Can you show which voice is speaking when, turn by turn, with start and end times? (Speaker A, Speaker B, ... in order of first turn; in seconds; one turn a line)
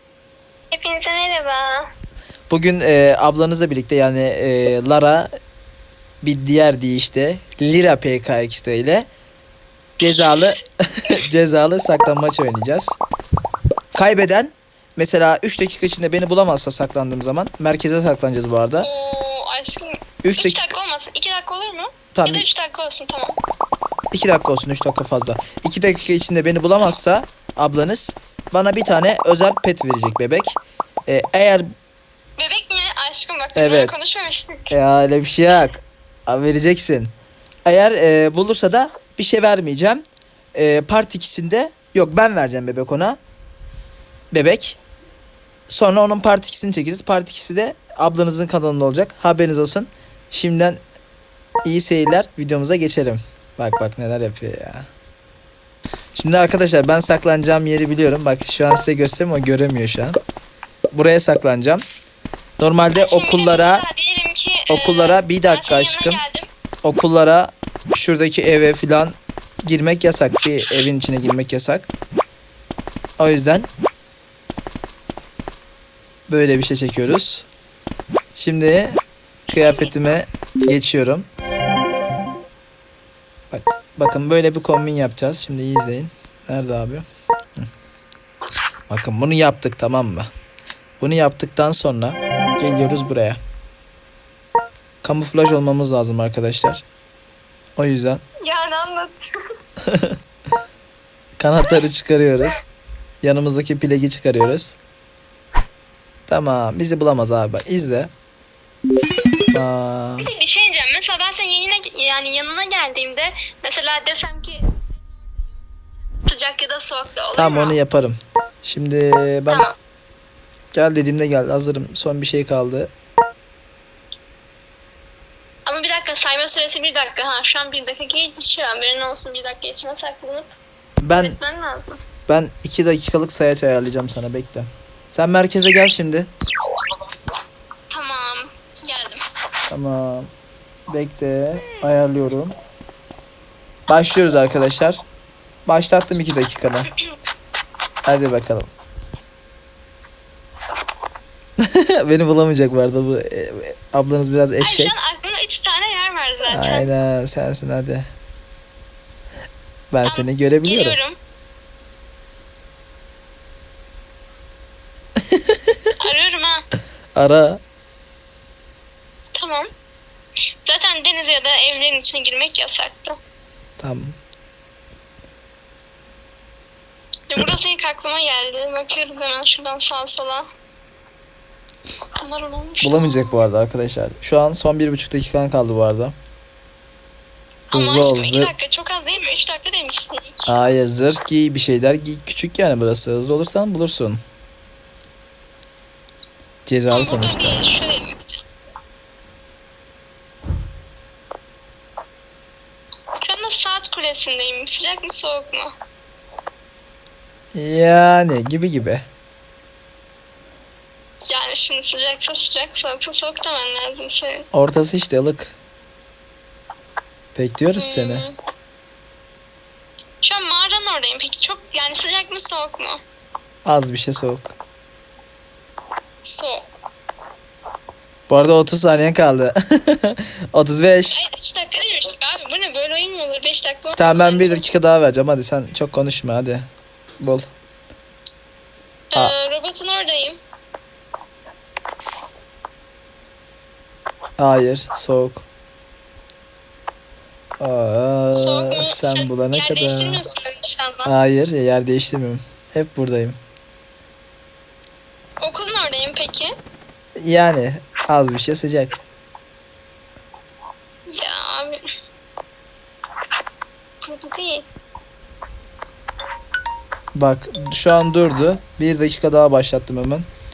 Speaker A: 0.7-1.9
Speaker B: 2.5-5.3
Speaker B: 6.2-9.1
Speaker B: 10.0-13.0
Speaker B: 13.9-18.9
Speaker A: 18.8-23.4
Speaker B: 20.2-20.7
Speaker B: 22.1-22.5
Speaker B: 24.1-31.7
Speaker A: 32.4-34.7
Speaker B: 33.5-33.9
Speaker B: 34.7-37.1
Speaker B: 37.7-40.0
Speaker B: 40.5-43.2
Speaker B: 44.3-44.8
Speaker B: 45.7-50.8
Speaker B: 51.6-54.9
Speaker B: 56.2-60.2
Speaker B: 60.9-61.8
Speaker B: 62.6-63.9
Speaker A: 63.0-66.5
Speaker B: 64.7-66.2
Speaker B: 66.8-71.9
Speaker B: 73.2-73.7
Speaker B: 76.3-77.5
Speaker B: 78.3-81.3
Speaker A: 79.5-79.9
Speaker B: 83.5-87.1
Speaker B: 88.9-90.3
Speaker B: 91.0-93.4
Speaker B: 95.0-96.8
Speaker B: 97.8-98.2
Speaker A: 98.4-99.3
Speaker B: 99.9-100.2
Speaker B: 101.4-102.7
Speaker B: 103.2-104.8
Speaker B: 106.3-108.1
Speaker B: 109.5-110.3
Speaker A: 110.2-115.6
Speaker A: 116.2-117.8
Speaker B: 117.3-119.7
Speaker A: 119.5-119.8
Speaker B: 120.7-122.9
Speaker A: 125.7-130.5
Speaker B: 131.0-131.4
Speaker A: 131.2-132.0
Speaker B: 132.3-136.3
Speaker A: 137.9-139.2
Speaker B: 139.7-140.3
Speaker B: 140.9-142.6
Speaker B: 143.9-145.0
Speaker B: 145.7-146.9
Speaker B: 148.1-148.7
Speaker B: 151.6-154.9
Speaker A: 154.6-156.9
Speaker B: 156.5-158.1
Speaker B: 159.9-161.0
Speaker A: 160.1-161.2
Speaker B: 165.3-165.7
Speaker A: 166.0-166.7
Speaker B: 167.2-167.6
Speaker A: 169.3-169.7
Speaker A: 170.7-173.2
Speaker B: 173.8-174.2
Speaker A: 177.3-180.5
Speaker A: 182.2-183.4
Speaker B: 182.8-186.1
Speaker A: 187.7-190.5
Speaker B: 187.7-188.5
Speaker B: 190.5-194.2
Speaker B: 196.7-197.6
Speaker A: 196.9-198.4
Speaker A: 203.2-205.7
Speaker B: 207.5-209.0
Speaker A: 211.3-214.5
Speaker B: 214.5-215.5
Speaker B: 217.3-218.2
Speaker A: 217.8-218.3
Speaker A: 220.2-223.0
Speaker B: 223.7-224.5
Speaker A: 226.2-226.7
Speaker B: 228.3-231.2
Speaker A: 231.1-234.6
Speaker B: 234.0-236.7
Speaker B: 237.2-237.5
Speaker A: 239.1-240.4
Speaker B: 244.4-245.4
Speaker B: 247.6-250.2
Speaker A: 248.3-251.1
Speaker B: 251.1-253.4
Speaker A: 255.4-256.5
Speaker B: 257.2-259.0
Speaker A: 261.1-261.8
Speaker A: 264.0-264.7
Speaker B: 267.1-270.3